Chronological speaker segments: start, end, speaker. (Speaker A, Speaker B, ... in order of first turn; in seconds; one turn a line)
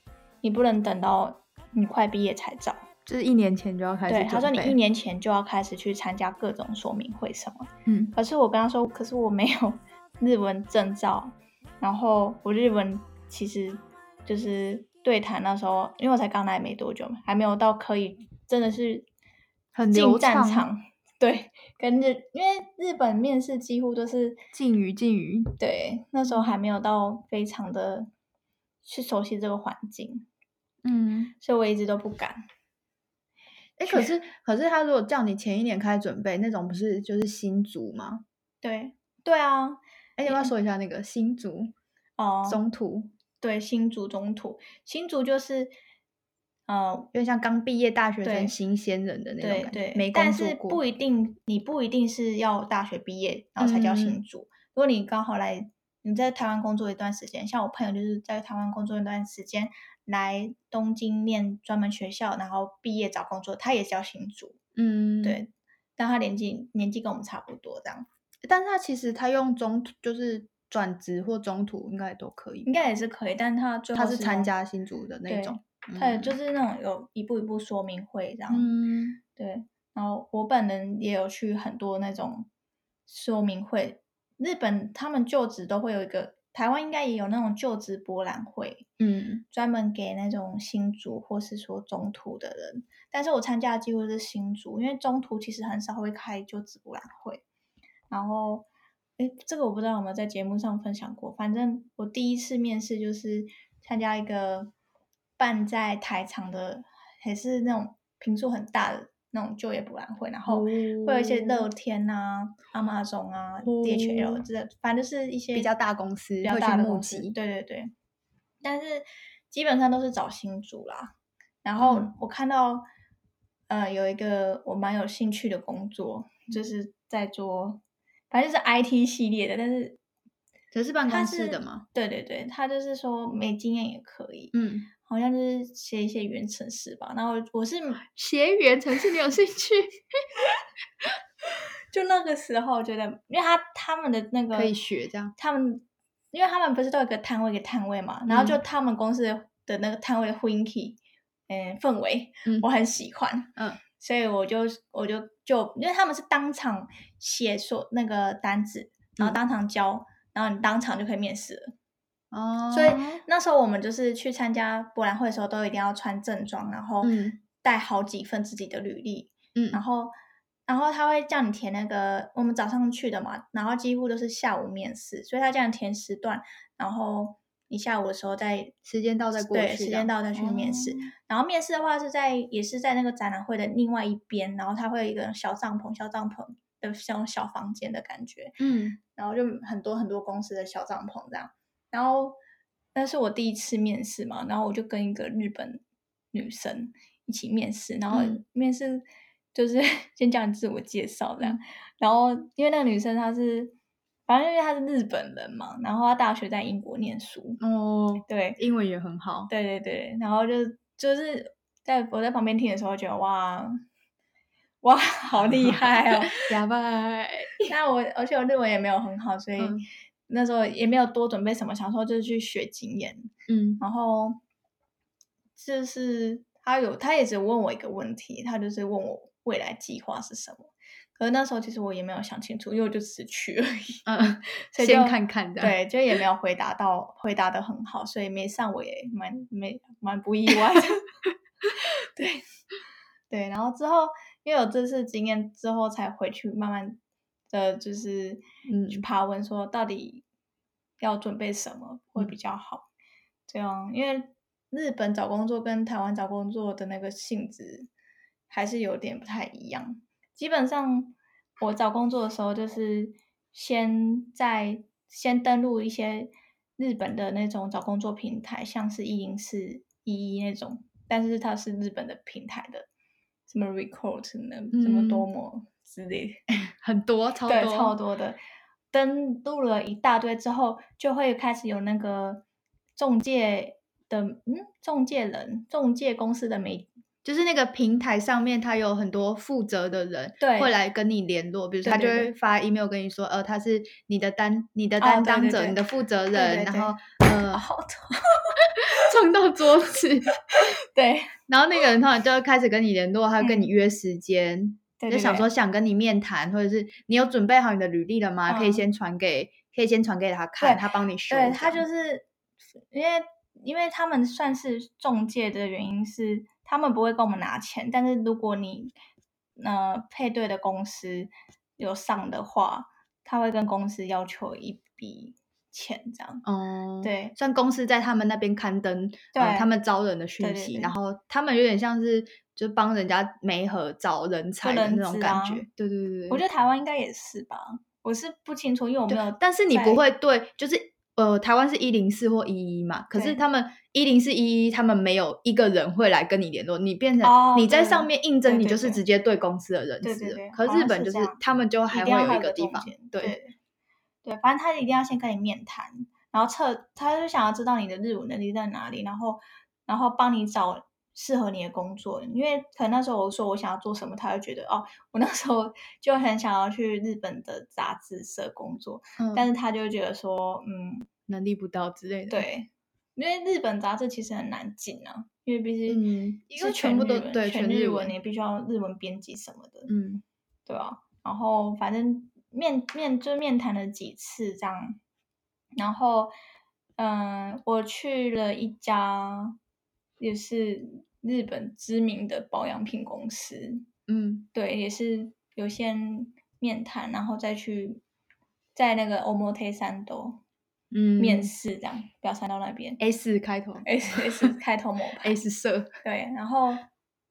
Speaker A: 0.4-2.8
Speaker B: 3.0-4.8
Speaker A: 4.1-19.1
Speaker B: 7.8-8.1
Speaker B: 19.7-20.6
Speaker A: 19.9-24.4
Speaker B: 24.5-25.5
Speaker A: 25.6-28.1
Speaker A: 28.8-30.2
Speaker B: 30.8-31.3
Speaker A: 31.4-32.4
Speaker B: 33.8-38.2
Speaker A: 38.6-40.5
Speaker B: 40.2-41.7
Speaker A: 42.2-42.6
Speaker B: 42.5-43.1
Speaker A: 43.4-45.7
Speaker A: 46.7-47.1
Speaker B: 47.1-50.8
Speaker A: 48.2-48.5
Speaker A: 49.4-64.6
Speaker B: 53.6-54.2
Speaker B: 64.8-65.4
Speaker A: 65.2-68.1
Speaker B: 68.4-72.7
Speaker A: 72.6-74.5
Speaker B: 73.9-76.3
Speaker A: 75.3-78.7
Speaker B: 78.5-79.2
Speaker A: 79.3-82.5
Speaker A: 83.1-88.8
Speaker B: 89.0-89.4
Speaker A: 89.5-97.4
Speaker A: 98.1-98.7
Speaker A: 99.2-104.7
Speaker A: 105.4-115.7
Speaker B: 110.5-111.7
Speaker B: 113.6-114.4
Speaker B: 115.5-117.3
Speaker A: 116.4-117.9
Speaker A: 118.6-121.1
Speaker A: 121.6-122.8
Speaker B: 121.8-122.1
Speaker A: 123.7-130.0
Speaker B: 130.7-131.8
Speaker A: 131.1-138.0
Speaker B: 134.5-134.9
Speaker B: 138.0-140.0
Speaker A: 141.9-144.7
Speaker B: 144.5-145.3
Speaker A: 145.3-151.0
Speaker B: 148.3-148.6
Speaker A: 151.5-161.7
Speaker B: 162.3-163.2
Speaker A: 162.7-170.1
Speaker B: 167.0-167.4
Speaker B: 169.5-169.8
Speaker A: 170.7-178.7
Speaker B: 178.8-181.1
Speaker A: 179.3-192.4
Speaker B: 188.6-189.0
Speaker A: 192.9-195.8
Speaker A: 196.3-203.7
Speaker B: 198.1-198.4
Speaker A: 204.3-207.6
Speaker B: 207.6-209.5
Speaker A: 208.3-208.6
Speaker A: 209.5-213.8
Speaker A: 214.8-216.5
Speaker B: 216.3-217.7
Speaker A: 217.7-224.4
Speaker B: 219.6-219.8
Speaker B: 223.5-223.8
Speaker A: 225.6-234.0
Speaker B: 234.1-235.8
Speaker A: 234.7-241.0
Speaker A: 242.0-242.4
Speaker A: 243.3-247.0
Speaker A: 247.5-250.2
Speaker B: 248.7-249.0
Speaker A: 251.0-252.9
Speaker A: 253.5-257.9
Speaker A: 258.5-272.9
Speaker A: 273.5-276.4
Speaker B: 274.7-275.3
Speaker B: 276.7-277.9
Speaker A: 277.5-278.4
Speaker A: 278.9-282.4
Speaker A: 282.9-286.9
Speaker B: 287.2-297.6
Speaker A: 290.4-290.7
Speaker A: 291.8-292.3
Speaker A: 295.0-295.8
Speaker A: 296.3-296.9
Speaker A: 297.5-299.0
Speaker B: 298.8-300.3
Speaker A: 300.5-301.3
Speaker B: 301.5-311.8
Speaker A: 303.4-303.7
Speaker A: 305.0-305.5
Speaker A: 308.5-308.8
Speaker A: 310.6-312.2
Speaker A: 312.9-318.9
Speaker A: 319.6-326.4
Speaker B: 326.4-336.4
Speaker A: 327.0-327.3
Speaker A: 329.3-329.7
Speaker A: 330.4-330.9
Speaker A: 334.6-335.6
Speaker A: 336.3-340.0
Speaker B: 339.1-353.3
Speaker A: 343.1-343.4
Speaker A: 347.2-349.0
Speaker A: 350.0-353.5
Speaker A: 354.2-371.1
Speaker B: 369.2-369.5
Speaker B: 371.3-372.4
Speaker A: 372.3-376.0
Speaker B: 375.9-378.1
Speaker A: 376.5-379.9
Speaker B: 379.9-380.2
Speaker A: 380.7-385.0
Speaker A: 385.8-386.3
Speaker A: 387.0-389.6
Speaker A: 390.2-393.8
Speaker B: 394.1-394.5
Speaker A: 394.5-398.0
Speaker A: 398.7-400.4
Speaker B: 400.9-401.5
Speaker A: 401.2-403.0
Speaker B: 403.0-404.5
Speaker A: 403.8-405.4
Speaker B: 405.2-405.9
Speaker A: 406.0-406.9